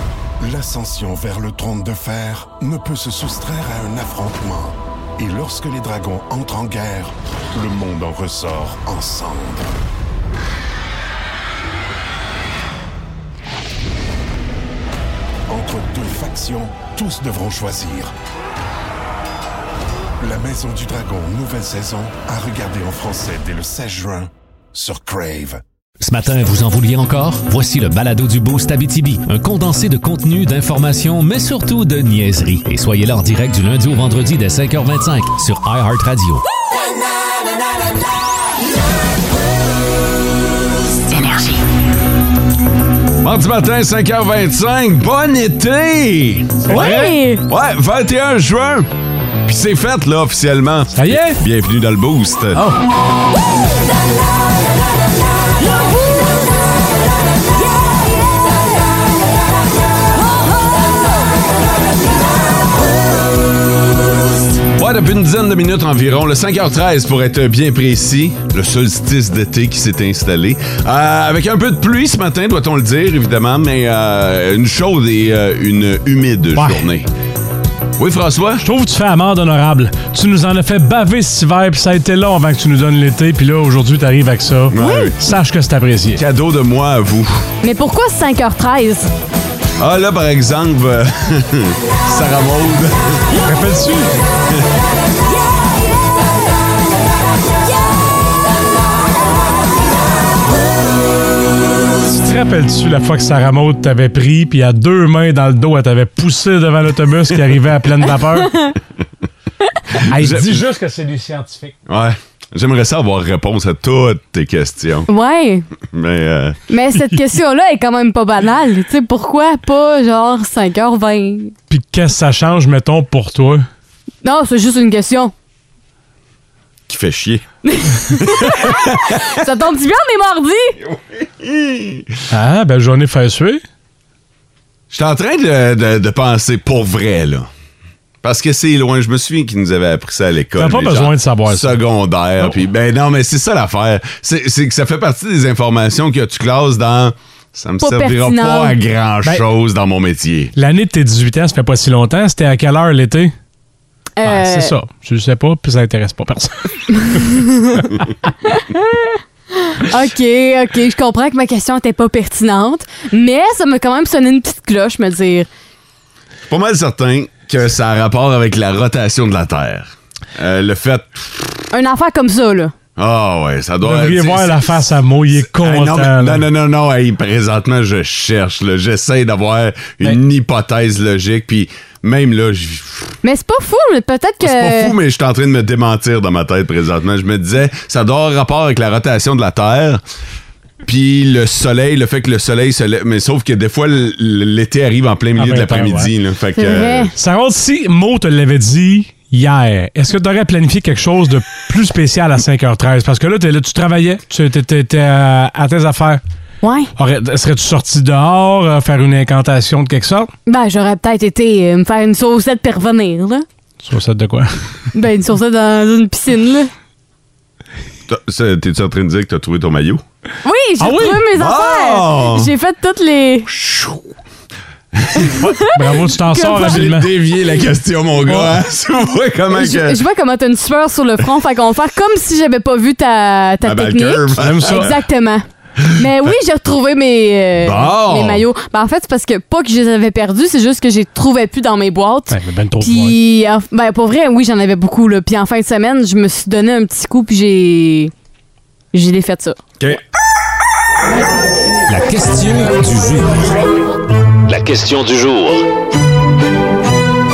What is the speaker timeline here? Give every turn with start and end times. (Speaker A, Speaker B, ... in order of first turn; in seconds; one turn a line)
Speaker A: 0.4-9.8
Speaker A: 15.5-18.1
Speaker A: 20.2-25.6
Speaker B: 26.0-36.4
Speaker C: 43.2-46.9
Speaker D: 46.6-47.1
Speaker E: 46.7-47.4
Speaker C: 47.5-48.9
Speaker C: 49.5-52.6
Speaker D: 50.9-51.4
Speaker D: 52.5-52.8
Speaker C: 64.8-77.1
Speaker D: 76.5-76.8
Speaker C: 78.0-78.6
Speaker D: 78.6-86.2
Speaker C: 84.7-85.2
Speaker E: 84.8-85.1
Speaker C: 86.2-87.4
Speaker E: 87.6-89.1
Speaker C: 89.8-93.2
Speaker D: 93.3-94.1
Speaker D: 102.1-108.5
Speaker E: 108.4-108.7
Speaker D: 110.1-111.7
Speaker C: 110.1-110.6
Speaker C: 111.9-115.1
Speaker E: 115.1-115.7
Speaker C: 115.9-116.6
Speaker E: 116.7-121.5
Speaker D: 121.7-123.7
Speaker E: 124.2-125.3
Speaker C: 126.9-127.4
Speaker E: 127.6-130.8
Speaker C: 128.1-129.3
Speaker C: 130.8-132.1
Speaker D: 132.3-133.6
Speaker C: 134.9-137.5
Speaker C: 138.2-150.5
Speaker D: 140.6-141.8
Speaker E: 147.8-148.8
Speaker D: 150.6-153.3
Speaker E: 154.2-154.7
Speaker D: 154.2-157.3
Speaker E: 157.1-157.4
Speaker E: 158.4-165.5
Speaker C: 166.5-171.5
Speaker E: 171.7-172.7
Speaker C: 173.0-183.0
Speaker D: 173.8-176.4
Speaker E: 183.2-184.9
Speaker C: 184.4-190.0
Speaker C: 190.8-197.1
Speaker D: 195.3-196.1
Speaker E: 196.6-197.1
Speaker D: 197.1-206.2
Speaker E: 206.6-206.9
Speaker D: 207.0-210.3
Speaker E: 210.5-213.4
Speaker D: 213.8-214.6
Speaker E: 214.9-216.7
Speaker C: 218.1-220.0
Speaker E: 220.4-223.5
Speaker D: 220.8-221.2
Speaker C: 221.3-222.5
Speaker C: 223.5-224.0
Speaker C: 224.9-225.4
Speaker E: 225.2-225.6
Speaker D: 225.6-227.1
Speaker E: 226.3-226.8
Speaker C: 226.5-230.0
Speaker D: 228.2-228.5
Speaker E: 229.5-248.1
Speaker C: 233.6-234.9
Speaker D: 234.4-234.9
Speaker C: 237.6-238.4
Speaker D: 242.3-243.2
Speaker E: 248.9-249.6
Speaker B: 251.9-253.4
Speaker C: 254.5-255.6